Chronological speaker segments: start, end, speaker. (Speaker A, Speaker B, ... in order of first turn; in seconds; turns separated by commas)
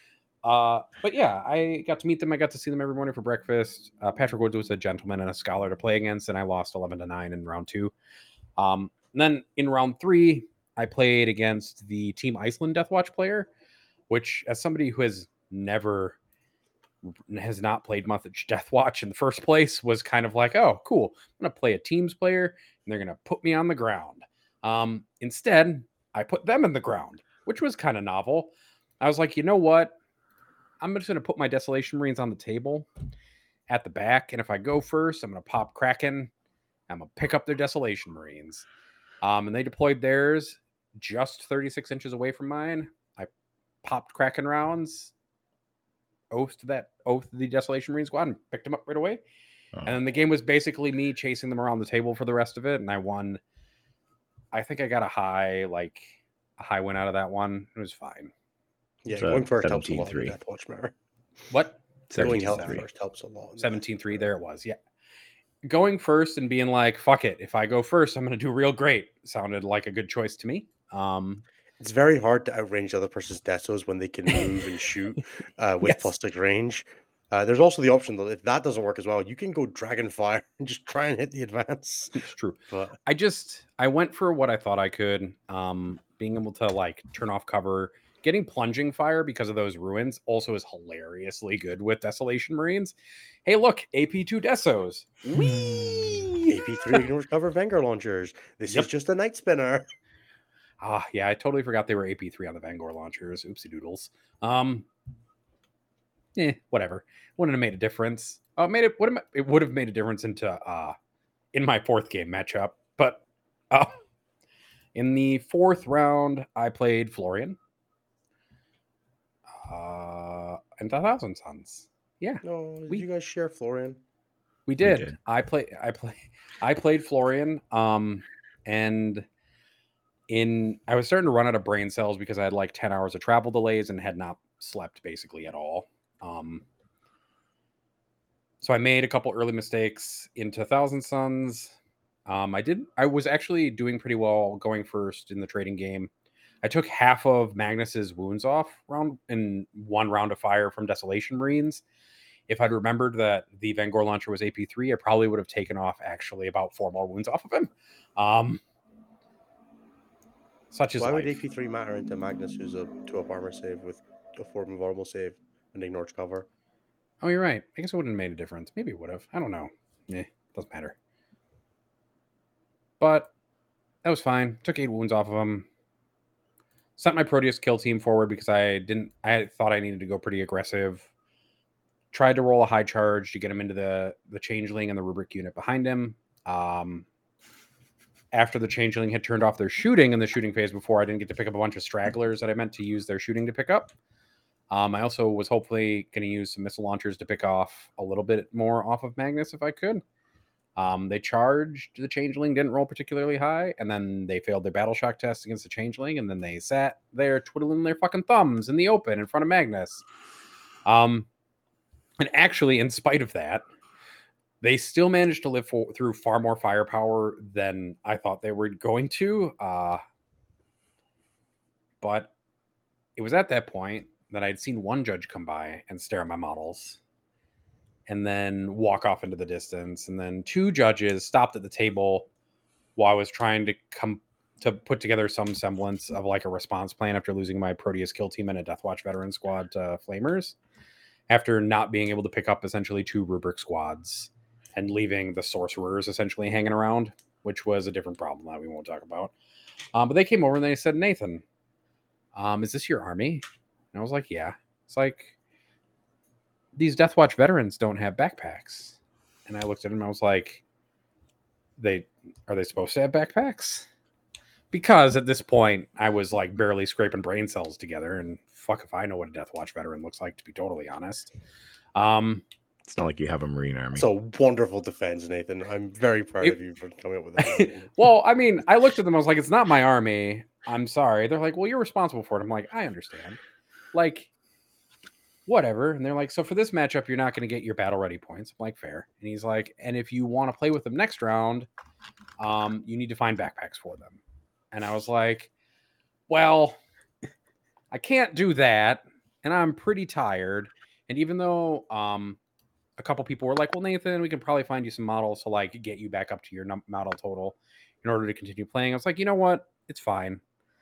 Speaker A: 0.4-7.9, Speaker A: 8.6-13.5, Speaker A: 14.1-16.1, Speaker A: 17.0-30.0, Speaker A: 30.8-32.9, Speaker A: 33.7-36.3, Speaker A: 36.9-38.6, Speaker A: 39.2-43.3, Speaker A: 43.8-45.1, Speaker A: 46.3-49.2, Speaker A: 49.8-53.4, Speaker A: 54.5-58.3, Speaker B: 59.0-60.9, Speaker C: 59.1-60.3, Speaker A: 61.5-62.6, Speaker C: 62.1-62.8, Speaker B: 62.1-64.3, Speaker A: 63.6-64.8, Speaker A: 65.6-71.4, Speaker B: 71.8-83.0, Speaker A: 75.8-76.1, Speaker A: 82.1-92.9, Speaker A: 93.4-97.0, Speaker B: 96.5-99.9, Speaker A: 100.8-104.9, Speaker A: 106.3-111.0, Speaker A: 111.5-114.0, Speaker A: 114.9-117.6, Speaker A: 119.6-123.0, Speaker B: 122.4-124.0, Speaker A: 124.7-129.2, Speaker C: 124.8-125.1, Speaker A: 130.3-136.6, Speaker A: 138.6-141.7, Speaker A: 142.3-146.1, Speaker A: 146.6-151.8, Speaker A: 152.5-158.6, Speaker A: 160.7-161.4, Speaker B: 161.0-166.5, Speaker A: 167.2-170.9, Speaker A: 173.0-173.3, Speaker A: 174.0-175.7, Speaker A: 177.0-181.0, Speaker A: 182.1-187.0, Speaker A: 188.3-193.9, Speaker A: 194.7-200.0, Speaker A: 200.8-210.1, Speaker A: 210.8-211.3, Speaker A: 212.2-213.6, Speaker A: 214.6-220.0, Speaker A: 222.0-222.3, Speaker A: 223.2-227.0, Speaker A: 228.1-232.3, Speaker A: 232.9-240.5, Speaker A: 241.3-249.3, Speaker A: 249.9-251.4, Speaker A: 252.3-253.4, Speaker A: 253.9-255.3, Speaker A: 256.8-258.9, Speaker A: 259.5-260.6, Speaker A: 261.8-263.9, Speaker A: 264.7-271.3, Speaker A: 271.9-272.4, Speaker C: 272.9-274.1, Speaker B: 273.9-277.9, Speaker A: 277.4-283.4, Speaker A: 283.9-284.3, Speaker A: 285.5-291.7, Speaker A: 292.4-294.2, Speaker A: 294.7-295.5, Speaker A: 296.3-296.8, Speaker A: 297.9-302.4, Speaker A: 303.0-310.4